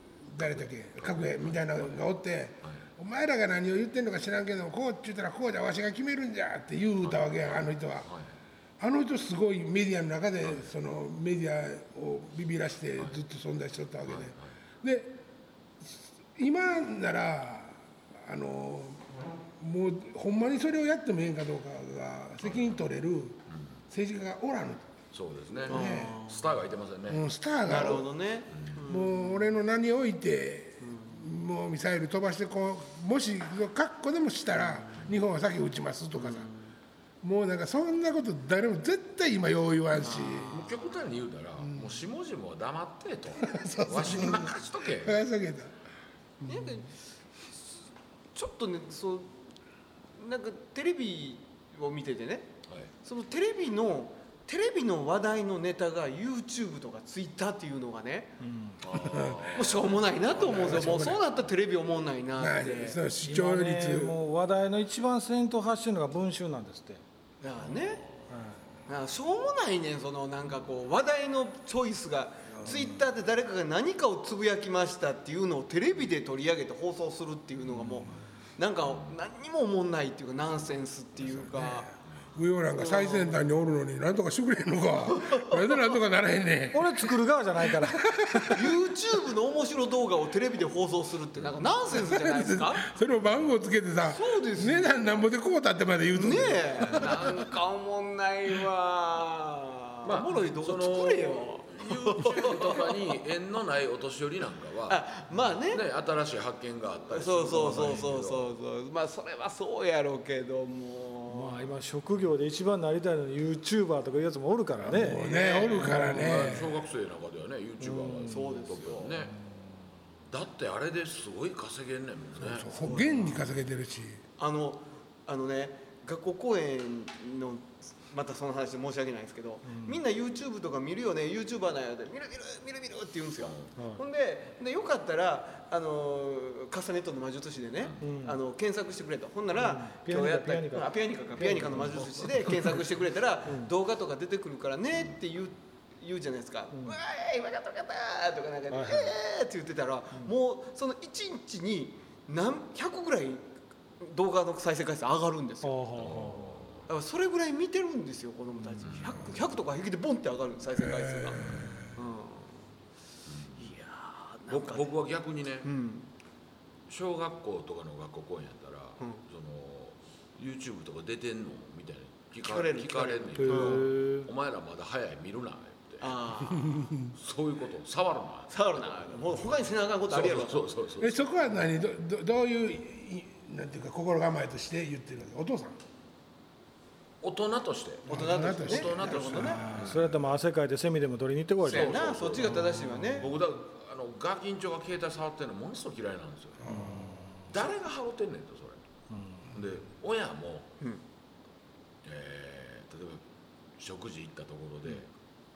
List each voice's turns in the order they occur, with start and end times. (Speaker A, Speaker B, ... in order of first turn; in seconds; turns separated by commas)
Speaker A: 0.3-8.1, Speaker B: 0.4-2.1, Speaker B: 2.6-2.9, Speaker B: 7.0-7.5, Speaker B: 8.0-8.3, Speaker A: 8.8-15.2, Speaker B: 10.4-10.7, Speaker B: 14.1-14.6, Speaker A: 15.8-23.4, Speaker B: 22.4-22.8, Speaker B: 23.5-23.8, Speaker A: 23.9-24.8, Speaker B: 25.1-27.3, Speaker A: 25.7-26.2, Speaker C: 25.7-26.6, Speaker A: 27.1-28.1, Speaker C: 27.6-29.4, Speaker B: 28.5-28.8, Speaker A: 28.9-36.5, Speaker C: 30.8-31.2, Speaker C: 34.6-35.0, Speaker C: 36.2-36.8, Speaker A: 37.2-40.6, Speaker C: 40.0-40.8, Speaker B: 40.1-45.2, Speaker A: 43.4-45.7, Speaker A: 46.4-46.8, Speaker C: 46.5-47.0, Speaker C: 47.5-47.8, Speaker C: 48.3-49.4, Speaker C: 50.2-52.5, Speaker B: 52.7-52.9, Speaker C: 53.0-58.4, Speaker D: 58.4-58.8, Speaker B: 58.8-61.2, Speaker A: 59.0-59.5, Speaker C: 59.5-63.0, Speaker A: 60.4-61.2, Speaker A: 62.4-64.2, Speaker D: 63.2-67.0, Speaker C: 67.4-68.0, Speaker B: 67.6-68.3, Speaker D: 68.3-68.6, Speaker C: 68.9-81.9, Speaker B: 78.8-79.2, Speaker A: 81.2-87.1, Speaker C: 82.8-83.5, Speaker C: 85.0-85.9, Speaker D: 86.7-88.6, Speaker A: 87.7-88.8, Speaker C: 88.5-92.9, Speaker B: 91.3-92.0, Speaker A: 92.0-97.2, Speaker B: 93.2-93.5, Speaker C: 94.1-95.1, Speaker C: 96.1-103.2, Speaker B: 96.8-97.5, Speaker B: 100.0-105.0, Speaker C: 104.9-105.8, Speaker B: 105.7-108.5, Speaker C: 107.1-111.7, Speaker D: 111.3-115.2, Speaker A: 114.9-116.8, Speaker C: 115.1-116.0, Speaker B: 115.5-119.4, Speaker D: 115.8-116.6, Speaker D: 117.8-118.5, Speaker C: 118.2-119.2, Speaker B: 120.3-123.4, Speaker A: 122.4-124.2, Speaker C: 122.7-123.4, Speaker C: 124.4-153.5, Speaker B: 133.4-133.7, Speaker D: 138.0-138.4, Speaker D: 139.6-142.4, Speaker D: 146.7-147.0, Speaker D: 148.7-149.1, Speaker C: 154.0-156.1, Speaker D: 155.6-156.6, Speaker B: 156.0-156.9, Speaker C: 156.9-162.7, Speaker B: 158.8-159.4, Speaker A: 160.8-161.9, Speaker B: 161.4-161.9, Speaker B: 163.3-163.8, Speaker C: 163.6-165.0, Speaker B: 164.5-165.7, Speaker C: 165.6-166.1, Speaker B: 166.9-181.3, Speaker C: 172.4-173.9, Speaker D: 173.4-174.3, Speaker C: 176.0-176.9, Speaker A: 176.6-177.1, Speaker C: 178.5-180.7, Speaker A: 181.0-185.8, Speaker B: 187.2-190.2, Speaker C: 188.1-189.6, Speaker A: 188.1-189.9, Speaker D: 189.7-192.0, Speaker C: 191.6-193.3, Speaker B: 191.6-198.8, Speaker D: 192.6-193.2, Speaker A: 196.6-197.1, Speaker D: 196.7-197.4, Speaker D: 199.1-199.5, Speaker B: 199.5-200.8, Speaker B: 202.0-203.2, Speaker B: 203.8-205.1